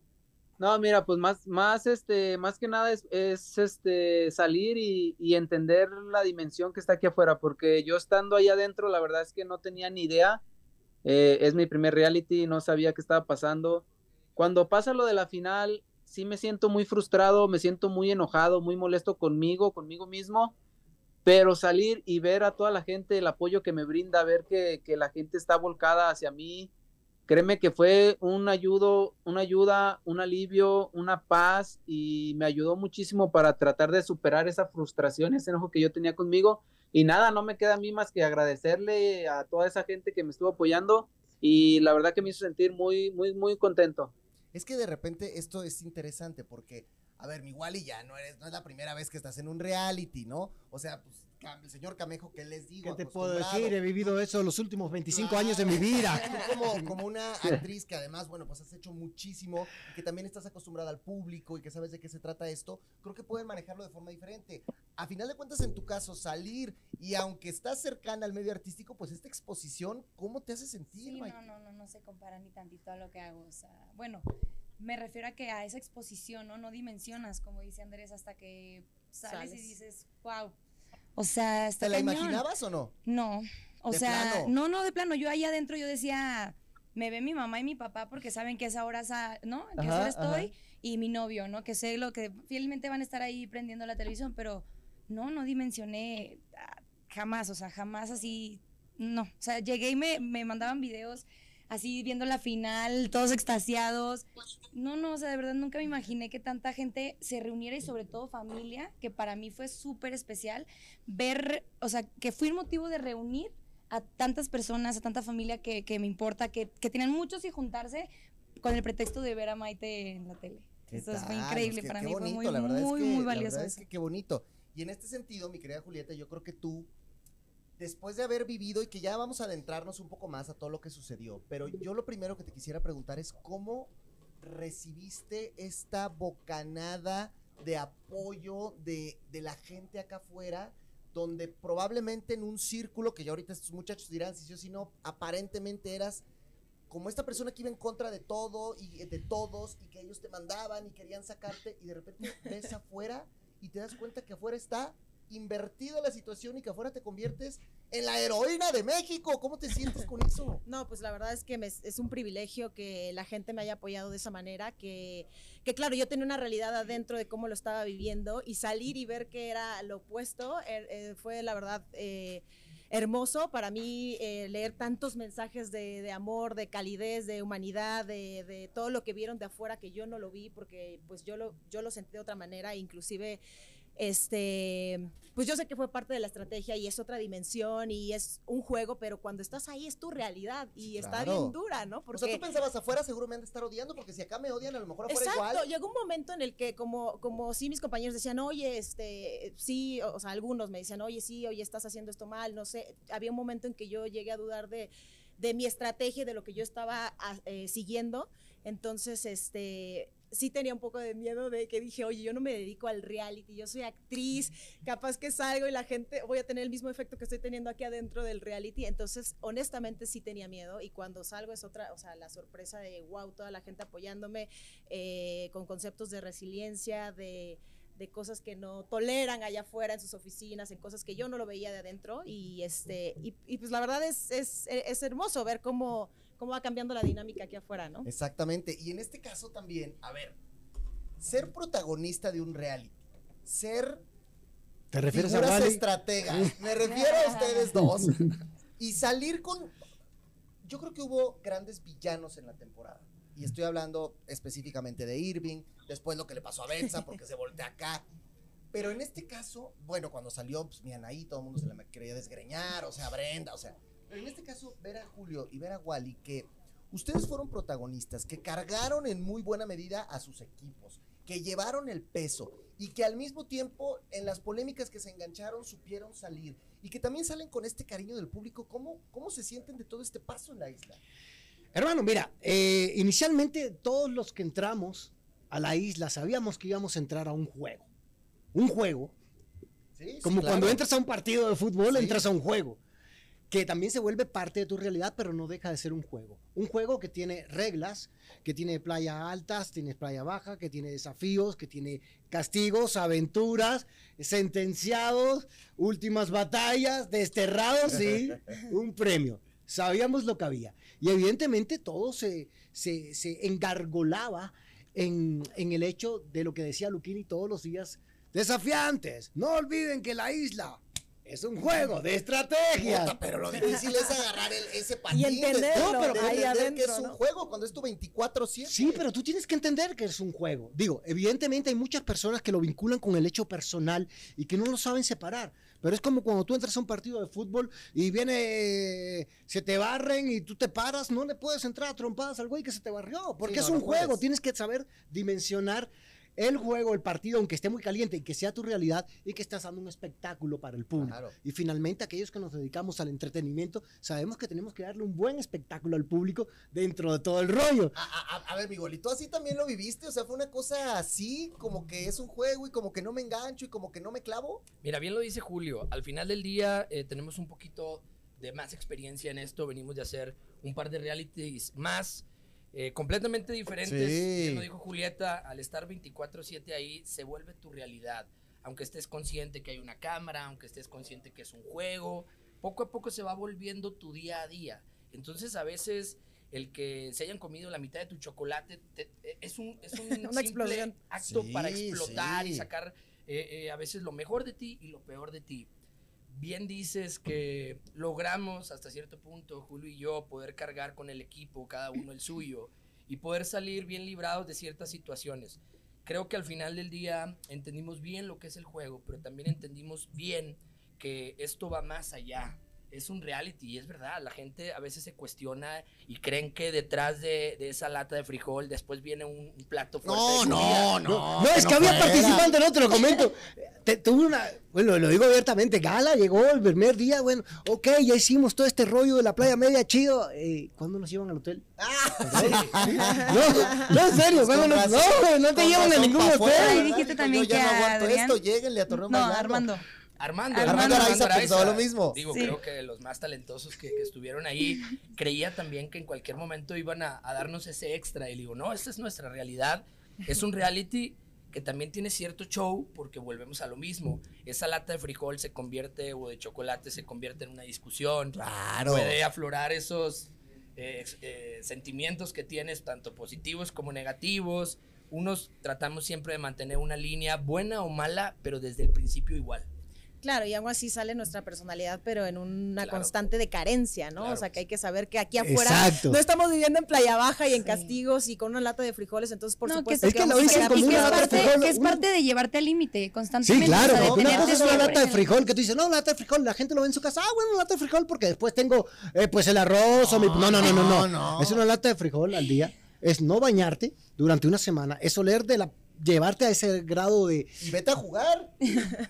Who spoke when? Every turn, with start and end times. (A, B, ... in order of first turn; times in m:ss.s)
0:00.6-0:10.4 A
0:11.0-0:20.5 A
0:21.2-0:26.7 A
0:27.3-0:44.1 A
0:44.5-0:54.0 B
0:52.8-0:56.8 C
0:55.1-1:11.4 B
1:11.0-1:14.2 D
1:14.8-1:20.5 D
1:19.3-1:19.7 E
1:21.2-1:22.4 D
1:21.8-1:22.9 B
1:23.0-2:03.8 D
1:23.9-1:24.5 B
1:29.8-1:30.5 B
2:00.9-2:06.9 B
2:07.8-2:26.2 B
2:26.9-2:40.6 B
2:40.6-3:03.4 E
3:04.0-3:12.4 E
3:10.9-3:11.6 B
3:12.1-3:15.6 B
3:15.1-3:58.1 E
3:58.0-4:00.4 B
4:01.2-4:04.0 B
4:04.9-4:06.5 C
4:05.1-4:09.7 B
4:10.6-4:18.0 B
4:18.7-4:41.0 B
4:41.7-4:47.9 C
4:48.5-4:49.1 C
4:49.9-4:50.8 B
4:50.2-4:52.8 C
4:51.9-4:52.2 B
4:53.5-5:23.2 C
5:22.7-5:29.0 B
5:25.1-5:27.2 E
5:25.7-5:26.4 C
5:28.7-5:57.9 C
5:43.4-5:44.2 B
5:51.0-5:51.3 B
5:57.9-6:04.6 B
6:04.8-6:35.7 F
6:13.8-6:14.6 B
6:30.2-6:30.9 E
6:31.2-6:32.7 B
6:36.3-7:01.0 F
7:00.0-7:02.5 B
7:01.0-7:16.8 C
7:11.8-7:19.7 B
7:12.4-7:12.7 F
7:16.5-7:18.4 D
7:18.9-7:19.8 D
7:20.2-7:49.7 F
7:20.5-7:21.2 D
7:20.6-7:22.2 B
7:38.4-7:39.2 B
7:50.2-8:01.6 E
7:55.4-7:56.2 C
7:57.6-7:57.9 D
7:59.6-8:05.3 D
8:00.0-8:02.0 C
8:03.4-8:17.6 C
8:03.6-8:05.0 B
8:10.0-8:11.6 B
8:17.6-8:18.6 B